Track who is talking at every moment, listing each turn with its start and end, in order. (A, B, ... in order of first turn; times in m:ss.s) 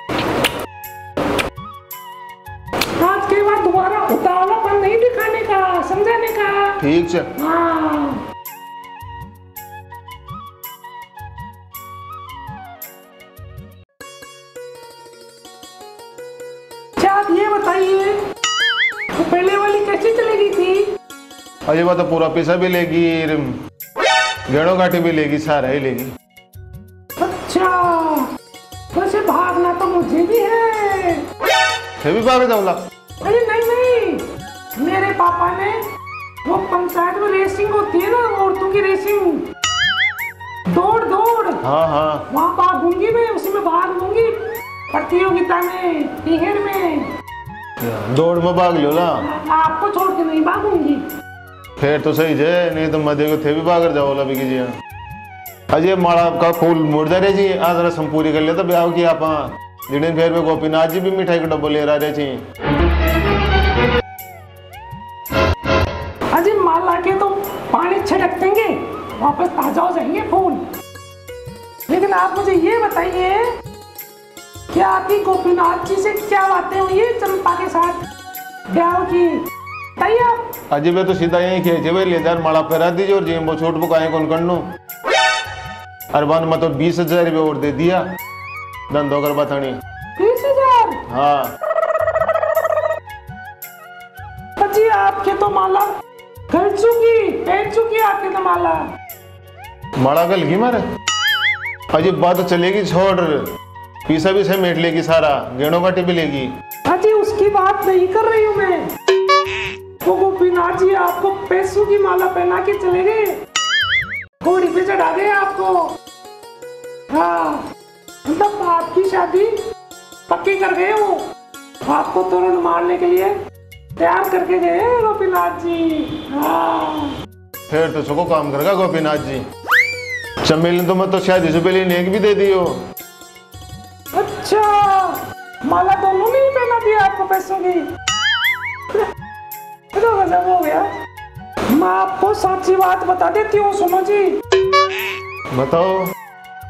0:03.0-0:06.8 A
0:06.8-0:07.3 B
0:07.4-0:08.2 A
0:17.0-0:18.2 A
0:19.1-0:20.9 A
0:21.7-0:23.5 B
0:24.5-0:26.1 B
0:27.2-0:28.3 A
0:28.9-0:31.2 A
0:32.0-0:32.8 B
0:33.2-0:34.2 A
0:34.8-0:35.8 A
0:36.4-0:39.4 A
0:40.7-0:41.6 A
0:41.6-0:42.2 B
0:42.3-0:47.1 A
0:47.8-0:49.2 B
0:49.2-0:51.0 A
0:51.8-0:54.7 B
0:55.7-1:02.4 B
1:06.3-1:10.6 A
1:11.9-1:13.5 A
1:14.7-1:18.0 A
1:18.7-1:19.4 A
1:20.0-1:20.5 A
1:20.7-1:24.7 B
1:26.1-1:28.0 B
1:28.9-1:29.8 B
1:30.2-1:31.0 A
1:31.1-1:31.5 B
1:34.6-1:35.9 A
1:36.5-1:38.8 A
1:40.0-1:40.8 B
1:41.9-1:43.5 B
1:44.1-1:46.5 B
1:46.8-1:48.9 A
1:50.0-1:53.4 A
1:54.4-1:55.9 A
1:57.1-1:57.6 A
1:58.2-1:59.6 A
2:00.3-2:01.2 A
2:01.8-2:03.4 A
2:04.0-2:07.1 A
2:07.7-2:09.4 B
2:10.4-2:12.8 B
2:14.1-2:17.9 A
2:19.9-2:20.9 A
2:21.7-2:24.4 A
2:25.5-2:26.1 B